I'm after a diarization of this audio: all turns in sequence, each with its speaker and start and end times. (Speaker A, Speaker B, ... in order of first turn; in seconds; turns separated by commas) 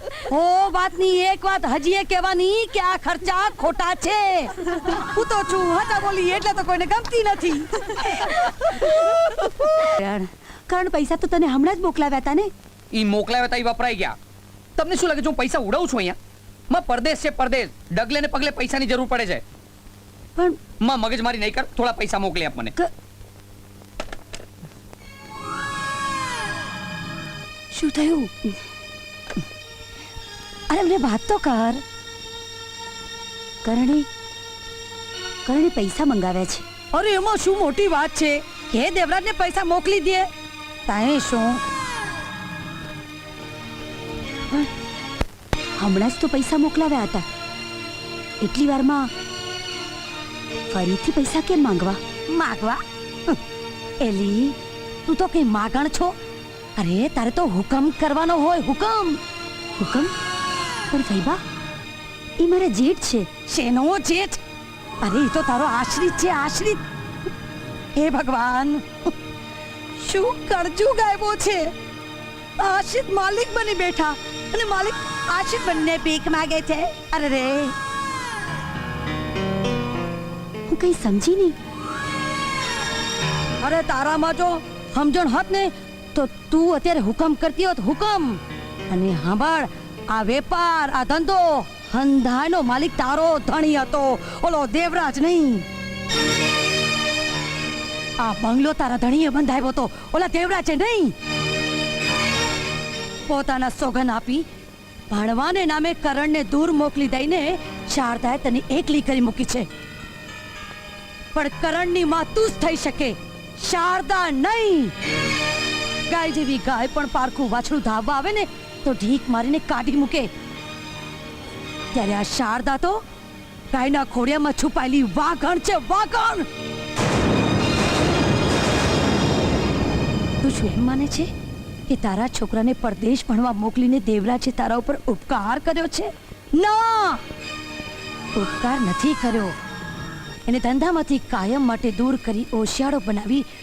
Speaker A: 0.2-8.1, Speaker B: 9.8-12.5, Speaker C: 12.9-14.2, Speaker C: 14.8-16.2, Speaker C: 16.7-19.4, Speaker C: 20.8-22.8, Speaker A: 27.7-28.3, Speaker A: 30.7-31.8, Speaker B: 33.6-34.1, Speaker B: 35.5-36.6, Speaker A: 36.9-40.3, Speaker A: 40.9-41.6, Speaker B: 45.8-47.2, Speaker B: 48.4-49.1, Speaker B: 50.7-52.0, Speaker A: 52.3-53.4, Speaker A: 54.0-56.1, Speaker A: 56.8-59.2, Speaker B: 59.8-60.1, Speaker B: 60.9-61.4, Speaker B: 62.4-63.3, Speaker A: 63.5-64.4, Speaker A: 65.0-66.8, Speaker A: 68.0-69.1, Speaker A: 70.0-71.7, Speaker A: 72.6-77.7, Speaker B: 80.7-81.6, Speaker A: 83.6-95.7, Speaker A: 98.2-101.1, Speaker A: 103.3-104.5, Speaker A: 105.1-109.7, Speaker A: 111.3-114.9, Speaker A: 116.1-120.3, Speaker A: 121.9-123.0, Speaker A: 123.7-126.5, Speaker A: 130.4-131.3, Speaker A: 131.9-137.2, Speaker A: 138.4-139.6, Speaker A: 140.5-143.5